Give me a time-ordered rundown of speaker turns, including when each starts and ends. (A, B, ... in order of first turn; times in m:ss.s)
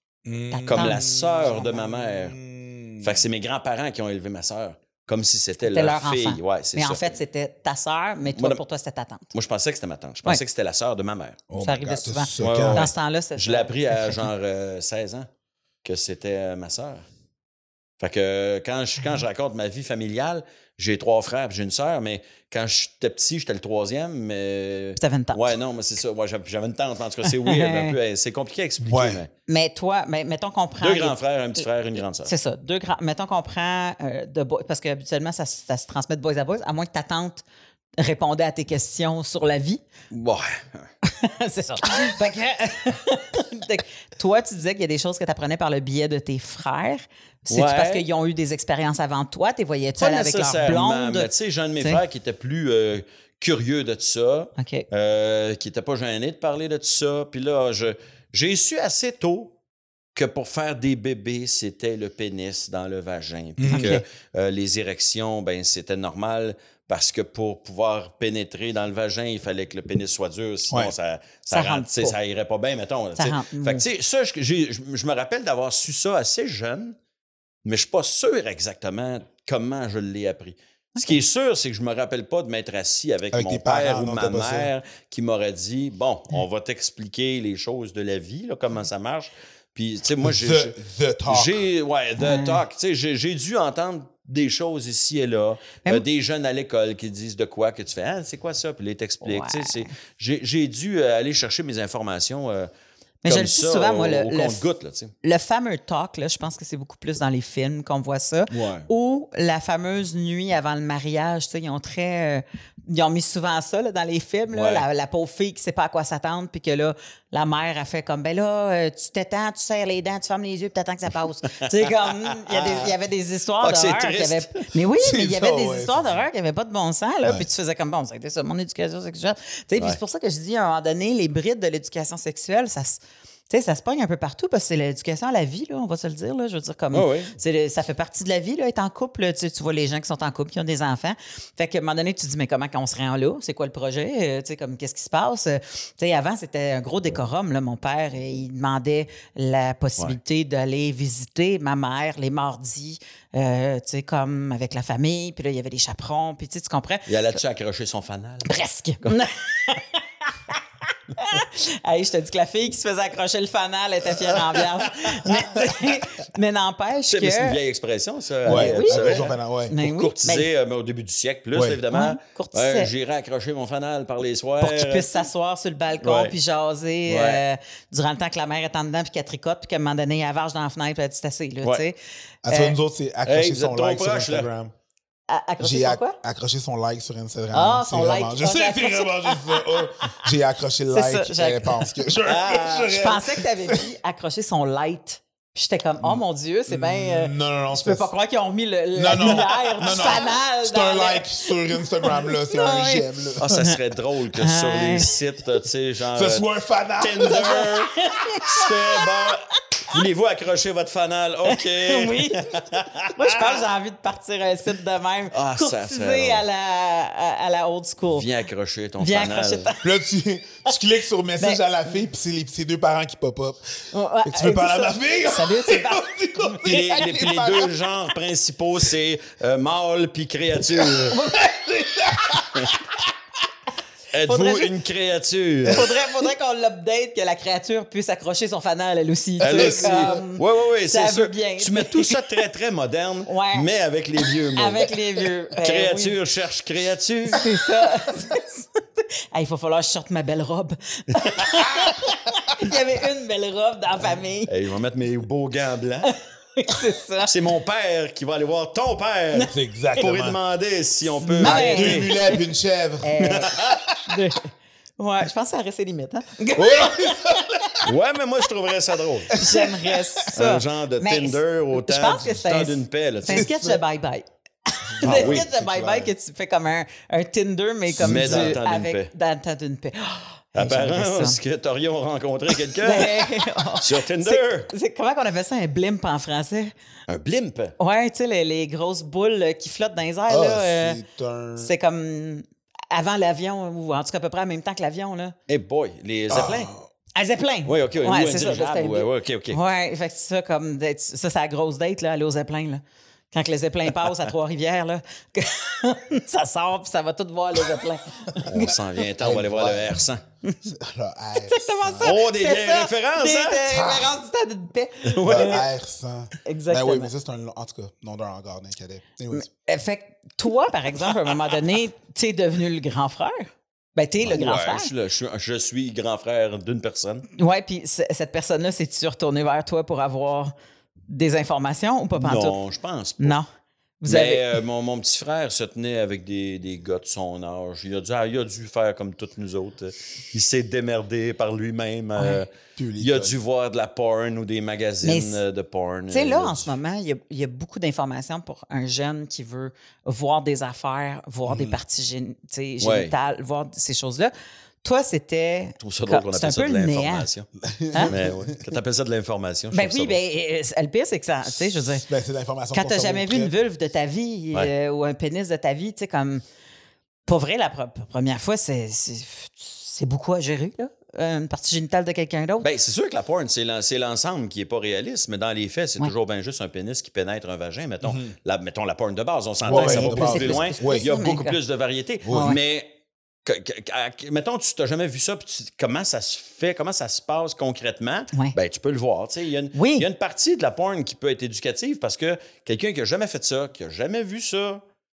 0:00.2-0:03.2 A
0:00.5-0:01.1 B
0:00.7-0:02.4 C
0:03.0-0:07.2 C
0:05.6-0:09.3 B
0:08.4-0:08.6 C
0:09.3-0:11.4 C
0:11.5-0:12.9 A
0:11.6-0:14.3 B
0:12.4-0:15.3 C
0:15.8-0:17.0 C
0:18.0-0:29.3 C
0:25.0-0:25.5 B
0:27.2-0:27.9 B
0:28.8-0:29.2 A
0:29.5-0:31.6 B
0:30.8-0:32.3 C
0:32.2-0:37.4 B
0:38.0-0:39.8 B
0:40.1-0:40.9 C
0:41.0-0:51.3 B
0:47.5-0:48.0 C
0:50.0-0:59.5 C
0:54.6-0:54.8 B
1:00.1-1:17.0 C
1:03.6-1:04.0 A
1:03.7-1:04.0 B
1:11.5-1:12.2 B
1:13.2-1:13.8 B
1:17.6-1:42.7 C
1:23.3-1:24.7 A
1:30.2-1:31.6 A
1:32.2-1:32.6 B
1:39.2-1:39.9 B
1:43.2-1:44.6 B
1:43.2-1:45.1 C
1:45.2-2:37.4 B
1:48.5-1:48.9 C
1:54.5-1:54.8 C
2:01.6-2:01.9 C
2:02.5-2:02.9 C
2:03.6-2:04.6 C
2:05.0-2:06.1 A
2:16.9-2:17.3 C
2:37.1-2:39.2 C
2:38.4-2:40.6 B
2:41.1-2:47.6 B
2:44.4-2:45.4 C
2:47.1-2:55.2 C
2:48.4-2:49.7 A
2:48.4-2:50.5 B
2:51.5-2:51.8 A
2:51.9-2:52.9 B
2:54.6-3:02.0 B
2:56.0-2:56.3 C
2:57.1-2:57.4 C
3:02.4-3:04.7 A
3:02.5-3:02.8 B
3:03.2-3:04.5 C
3:05.3-3:06.2 B
3:05.6-3:13.9 A
3:07.5-3:10.2 B
3:10.9-3:11.9 B
3:12.2-3:13.0 C
3:12.9-3:23.8 B
3:16.0-3:18.1 A
3:18.9-3:23.5 A
3:19.2-3:20.2 C
3:23.4-3:26.4 C
3:24.3-3:25.1 B
3:26.1-3:27.7 A
3:27.0-3:33.6 C
3:27.3-3:29.2 B
3:31.5-3:32.5 B
3:33.1-3:38.3 B
3:35.3-3:36.4 C
3:38.1-3:39.7 C
3:39.0-3:39.8 B
3:39.8-3:47.7 A
3:43.9-3:46.7 B
3:46.6-3:51.2 C
3:50.7-3:53.0 A
3:51.1-3:51.4 B
3:54.1-3:55.9 C
3:54.2-3:54.7 B
3:55.7-4:02.4 B
3:59.4-4:00.2 A
3:59.4-4:05.0 C
4:03.3-4:03.7 B
4:04.5-4:06.2 B
4:05.6-4:07.5 C
4:07.3-4:14.5 B
4:11.2-4:11.4 C
4:14.4-4:16.1 C
4:16.0-4:17.3 B
4:17.2-4:22.1 C
4:19.4-4:20.4 A
4:21.2-4:24.0 A
4:21.3-4:22.4 B
4:23.0-4:23.5 B
4:23.2-4:23.8 C
4:24.1-4:27.6 B
4:26.5-4:27.9 A
4:27.8-4:29.4 C
4:29.3-4:30.3 A
4:29.3-4:41.4 B
4:30.3-4:33.5 C
4:33.3-4:33.8 A
4:34.9-4:36.1 A
4:35.0-4:35.4 C
4:37.9-4:38.6 A
4:38.0-4:39.1 C
4:40.5-4:44.7 C
4:42.8-4:46.7 B
4:47.1-4:47.7 C
4:47.8-4:51.0 B
4:50.3-4:51.7 A
4:51.6-4:55.3 B
4:55.5-4:56.7 C
4:56.3-4:56.9 A
4:56.4-5:08.7 B
4:57.6-4:59.6 C
5:08.4-5:10.0 A
5:08.5-5:10.2 C
5:10.6-5:12.1 A
5:11.4-5:15.6 B
5:12.0-5:13.8 C
5:13.7-5:14.2 A
5:15.0-5:15.6 C
5:15.2-5:19.5 A
5:16.4-5:17.1 B
5:19.3-5:24.9 B
5:24.2-5:27.3 C
5:27.3-5:30.5 B
5:31.1-5:32.6 B
5:32.1-5:33.4 C
5:33.2-5:33.4 B
5:34.0-5:34.6 B
5:34.1-5:46.7 C
5:42.2-5:42.4 B
5:42.8-5:43.4 A
5:45.0-5:45.4 B
5:46.1-5:57.3 B
5:51.5-5:51.8 A
5:52.8-5:53.1 C
5:55.8-5:57.5 C
5:57.6-5:58.5 A
5:58.1-6:00.2 C
5:59.7-6:02.0 B
6:01.7-6:03.5 A
6:02.7-6:06.4 B
6:07.2-6:12.7 B
6:12.6-6:22.9 C
6:18.0-6:18.3 A
6:19.6-6:21.1 A
6:19.7-6:21.6 B
6:22.2-6:22.6 A
6:22.3-6:22.6 B
6:23.4-6:34.8 C
6:29.7-6:30.1 B